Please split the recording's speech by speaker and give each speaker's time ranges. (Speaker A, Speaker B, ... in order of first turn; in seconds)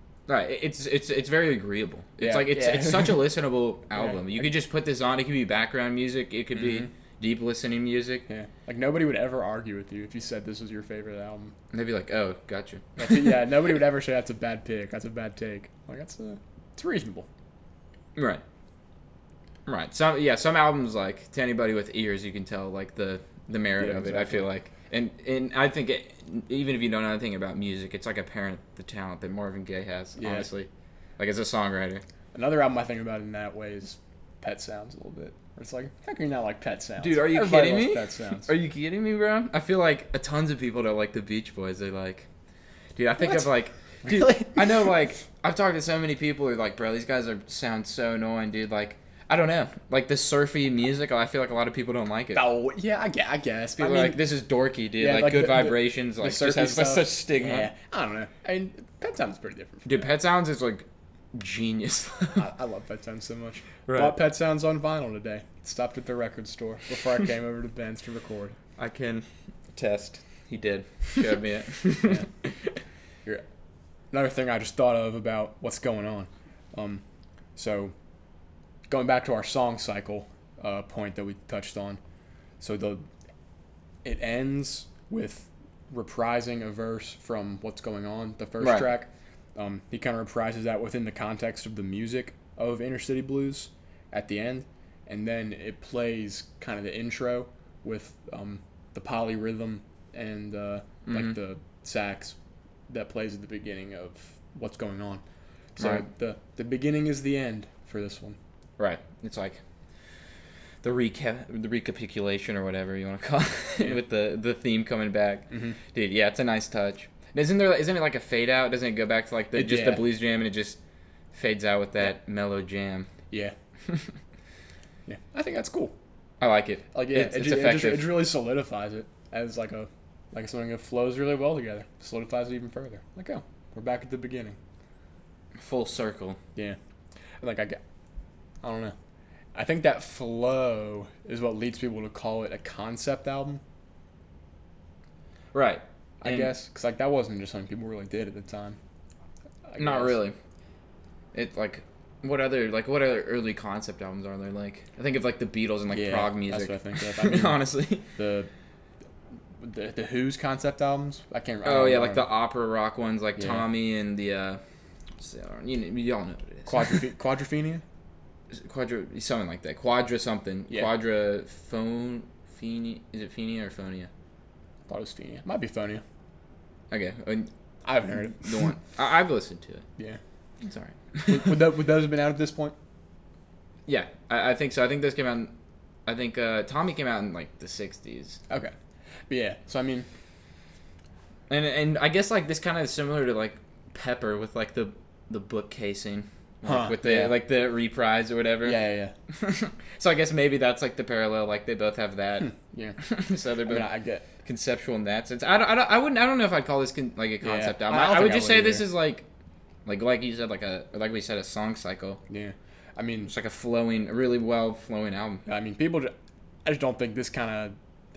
Speaker A: 0.3-8.2, 11.7-13.3, 18.1-18.4, 19.6-32.0, 37.0-42.3, 43.0-52.4, 53.8-57.7, 59.8-62.5, 63.9-64.2, 68.8-72.8, 88.6-88.9, 101.0-101.3, 105.8-106.0, 108.8-109.6, 110.8-120.8, 121.3-123.1, 126.4-128.3, 135.6-136.4, 145.5-146.5, 149.8-150.3, 151.3-158.0, 161.6-164.6, 165.2-167.0, 168.5-174.1, 176.9-177.5, 178.4-179.8, 180.6-181.7, 183.8-185.5, 186.1-188.4, 191.5-203.9, 204.4-209.2, 209.8-212.2, 213.3-215.4
Speaker B: 2.2-3.2, 4.0-4.5, 6.6-6.9, 8.3-11.5, 13.0-17.3, 23.8-24.5, 30.2-30.5, 32.3-38.5, 43.2-45.0, 52.3-54.2, 55.0-60.0, 62.3-68.6, 72.0-72.3, 74.1-77.0, 77.5-77.9, 78.9-82.0, 82.6-83.0, 84.0-102.3, 102.9-105.2, 105.8-108.4, 115.5-115.8, 119.5-120.0, 125.1-125.9, 126.9-134.6, 137.4-137.8, 138.6-138.9, 139.5-143.6, 146.2-148.8, 149.7-150.2, 155.9-158.5, 159.6-162.3, 163.4-163.7, 166.7-167.8, 174.9-176.0, 177.8-178.8, 181.2-182.7, 189.3-190.1, 196.6-197.3, 198.6-199.1, 202.4-203.0, 203.6-204.2, 207.4-208.9, 212.3-213.3, 215.4-216.1, 216.7-217.8